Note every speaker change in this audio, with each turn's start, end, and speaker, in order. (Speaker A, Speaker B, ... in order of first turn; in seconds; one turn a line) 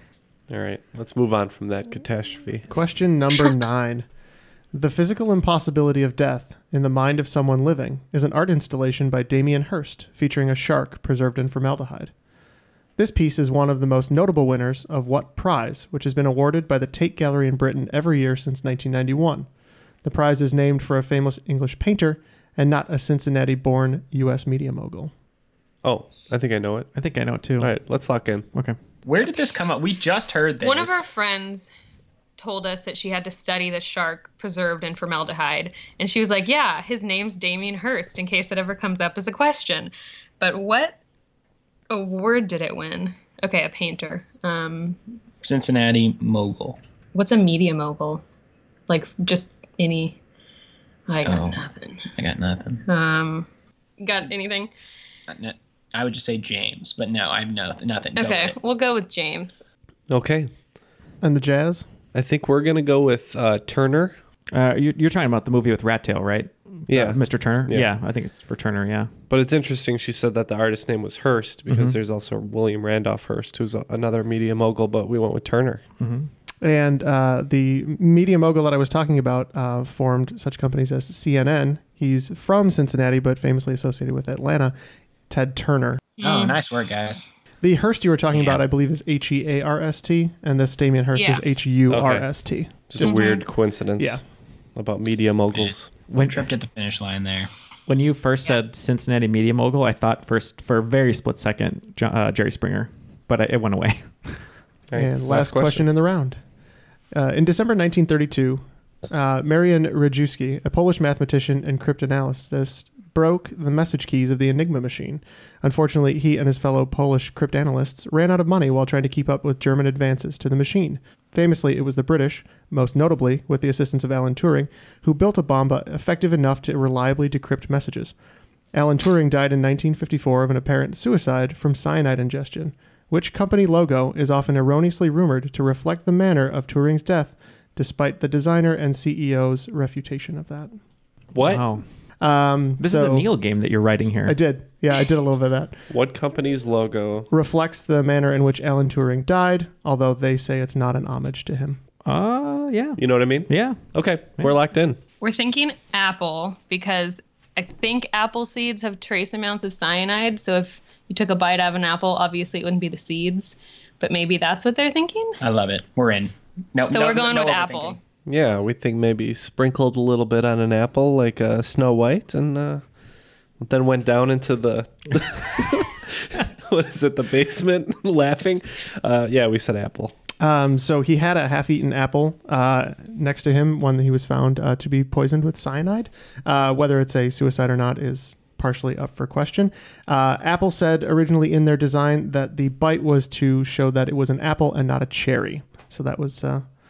Speaker A: 0.5-2.7
Speaker B: 2.7-4.1
Speaker B: 4.7-12.1
Speaker B: 13.0-19.5
Speaker B: 20.0-25.1
Speaker A: 25.8-26.9
Speaker C: 26.9-27.8
Speaker A: 27.6-28.5
Speaker D: 29.1-31.0
Speaker E: 30.6-31.7
Speaker E: 32.4-41.0
Speaker E: 41.9-45.0
Speaker D: 45.4-46.8
Speaker E: 47.1-48.2
Speaker E: 48.9-50.2
Speaker E: 51.1-52.1
Speaker D: 51.2-51.6
Speaker D: 52.1-52.9
Speaker E: 52.9-53.5
Speaker E: 54.0-54.7
Speaker D: 55.3-58.6
Speaker E: 58.2-59.6
Speaker A: 60.1-60.5
Speaker B: 61.2-61.9
Speaker A: 62.1-64.2
Speaker C: 64.5-69.1
Speaker A: 66.9-67.9
Speaker A: 69.3-75.8
Speaker C: 71.7-72.0
Speaker C: 76.0-76.3
Speaker B: 76.6-84.8
Speaker B: 85.3-86.1
Speaker E: 86.2-86.6
Speaker D: 86.2-87.2
Speaker B: 87.6-93.4
Speaker D: 88.3-88.6
Speaker E: 91.1-91.4
Speaker A: 91.9-94.2
Speaker E: 93.0-93.5
Speaker A: 94.8-95.9
Speaker D: 95.6-97.5
Speaker C: 96.1-96.5
Speaker C: 97.9-104.4
Speaker A: 104.9-105.9
Speaker B: 105.0-106.4
Speaker B: 107.1-128.1
Speaker B: 128.7-140.7
Speaker A: 141.3-141.8
Speaker C: 141.4-141.8
Speaker B: 142.2-143.3
Speaker C: 142.8-144.4
Speaker B: 144.3-145.8
Speaker A: 145.9-147.3
Speaker B: 147.3-151.8
Speaker C: 152.1-153.8
Speaker A: 153.0-155.0
Speaker E: 155.2-165.4
Speaker D: 165.4-168.0
Speaker E: 166.8-168.0
Speaker A: 168.3-172.8
Speaker A: 173.6-180.2
Speaker B: 180.4-196.7